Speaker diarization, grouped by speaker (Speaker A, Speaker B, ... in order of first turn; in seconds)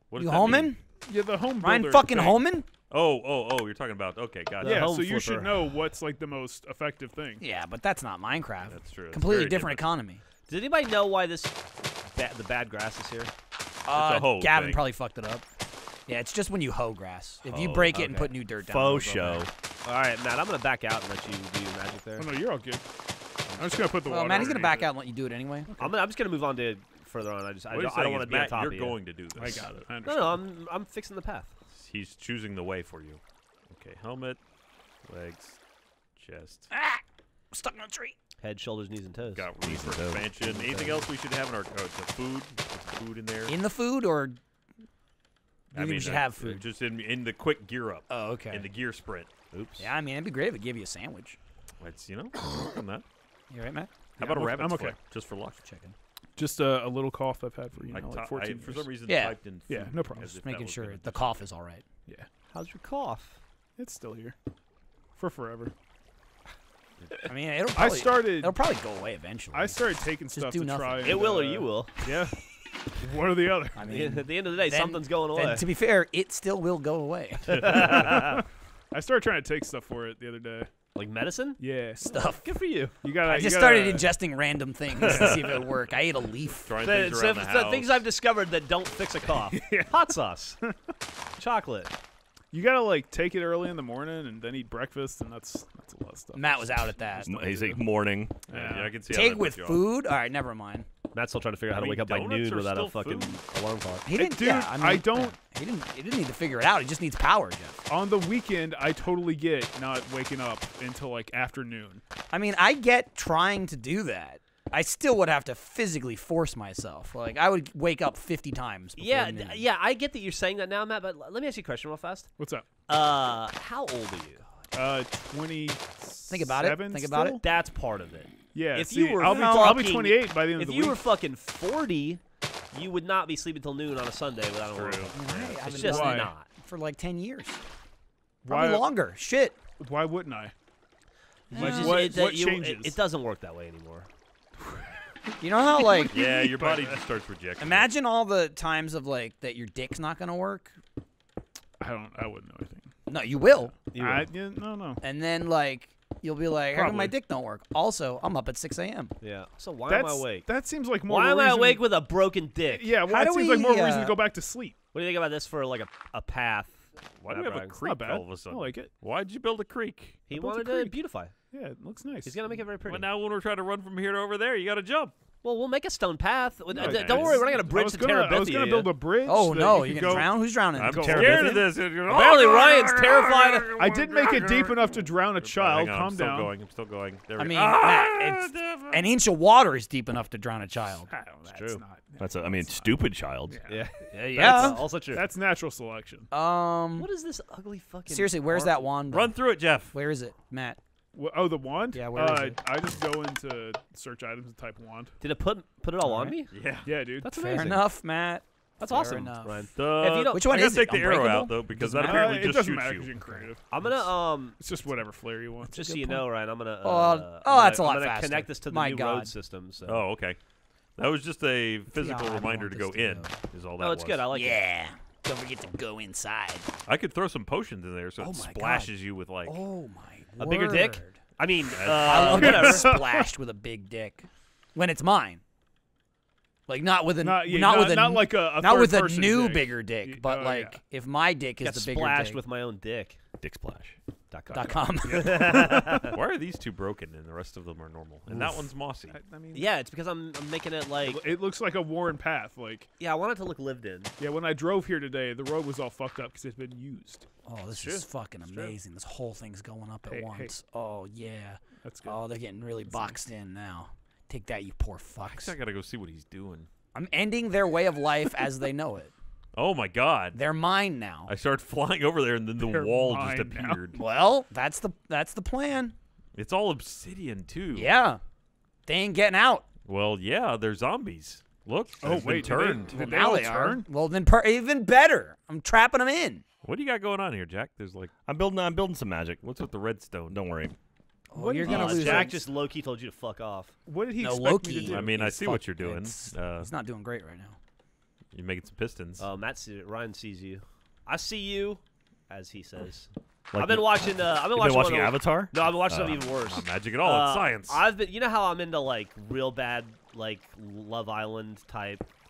Speaker A: 0.1-0.8, 2.9-4.9, 8.7-9.9, 13.9-14.8, 27.7-29.7, 31.8-34.4, 35.0-35.6, 36.2-36.7, 39.4-43.6, 45.7-49.3, 51.8-53.0, 54.2-55.6, 57.9-61.4, 85.1-85.4, 86.7-88.0, 98.5-99.9, 101.7-103.4, 134.7-135.2, 146.1-147.9, 167.2-170.2, 172.9-175.2, 176.8-177.4, 180.7-184.8, 185.4-189.1, 199.1-199.9, 206.5-206.9, 209.8-213.4, 219.9-220.4, 221.0-224.3, 226.9-229.6, 231.8-232.7, 246.0-249.2, 265.2-266.7, 269.6-270.4, 271.3-274.0, 276.4-277.9, 279.9-283.0, 286.6-288.1, 289.4-290.4, 294.9-296.7, 298.3-299.2, 305.9-307.9
Speaker B: 0.2-0.8, 1.6-2.7, 7.4-10.2, 13.9-15.4, 16.1-19.5, 24.0-25.7, 36.7-38.1, 43.5-44.4, 45.7-46.6, 48.1-48.7, 49.8-51.4, 53.5-53.9, 55.6-56.0, 59.1-59.4, 60.2-61.9, 67.3-69.8, 70.3-71.4, 73.8-78.2, 82.1-82.5, 83.2-86.7, 96.3-97.8, 99.1-100.9, 104.1-107.8, 112.3-119.6, 126.3-127.4, 129.2-129.8, 135.1-137.6, 138.5-139.6, 141.5-142.2, 145.4-146.2, 147.6-150.8, 153.1-153.8, 155.0-159.1, 163.1-164.2, 179.2-181.7, 187.4-191.1, 194.2-194.9, 196.3-197.1, 198.1-200.8, 201.9-202.6, 206.0-206.4, 207.2-212.6, 216.8-219.3, 221.9-223.3, 224.3-226.7, 228.2-228.9, 229.5-231.2, 231.9-235.4, 236.7-242.4, 244.5-246.2, 257.4-265.5, 266.9-269.1, 270.3-271.3, 273.9-275.9, 277.8-278.2, 278.9-279.6, 282.9-286.4, 291.3-292.4, 294.2-297.6
Speaker C: 0.9-2.5, 4.6-7.4, 22.2-22.8, 23.5-24.9, 29.4-30.4, 54.2-55.0, 56.4-58.9, 59.7-60.3, 63.8-64.4, 65.2-65.7, 67.7-68.6, 69.5-72.4, 73.0-74.1, 78.0-80.7, 81.6-82.1, 83.0-84.1, 85.0-85.5, 89.5-90.8, 92.5-96.9, 98.5-99.0, 104.1-105.4, 107.9-112.0, 122.4-122.7, 124.7-127.4, 128.5-131.1, 135.7-136.3, 138.4-138.9, 139.8-140.5, 141.5-143.0, 145.8-147.0, 151.8-152.9, 153.9-155.0, 156.7-157.2, 159.9-161.9, 162.7-164.8, 167.8-168.9, 170.3-171.0, 171.5-172.4, 176.8-181.6, 183.8-186.5, 191.1-196.3, 201.1-205.1, 206.8-207.8, 211.9-216.2, 232.3-233.3, 237.2-240.8, 245.1-245.7, 249.1-249.7, 251.0-252.9, 254.2-257.2, 260.1-260.5, 261.8-262.2, 272.6-273.8, 282.0-283.9, 291.4-292.3, 293.9-295.1
Speaker D: 4.6-5.7, 10.5-11.6, 12.1-13.3, 19.9-22.3, 25.8-29.0, 30.0-31.5, 38.4-39.5, 40.4-41.1, 49.5-49.9, 62.5-63.4, 71.0-71.9, 73.9-75.7, 77.5-78.4, 81.0-83.0, 86.8-90.6, 91.4-91.9, 101.1-104.1, 119.0-122.3, 122.9-124.4, 127.4-132.2, 132.7-136.5, 141.5-144.1, 153.9-154.3, 159.2-160.5, 161.1-163.0, 164.9-167.8, 170.3-171.3, 172.2-173.1, 175.4-178.9, 182.1-183.8, 191.5-191.8, 193.7-195.2, 196.9-198.8, 205.2-206.6, 207.2-207.9, 208.8-210.4, 213.7-214.6, 215.7-220.1, 223.8-224.6, 230.4-233.0, 241.6-243.2, 244.3-246.2, 248.3-248.6, 249.5-251.2, 253.0-254.1, 257.7-258.7, 291.6-293.7, 299.2-312.1
Speaker E: 17.4-19.5, 39.6-40.3, 97.2-98.4, 192.2-193.6, 243.4-244.0, 288.3-289.4, 290.3-290.8, 303.5-305.5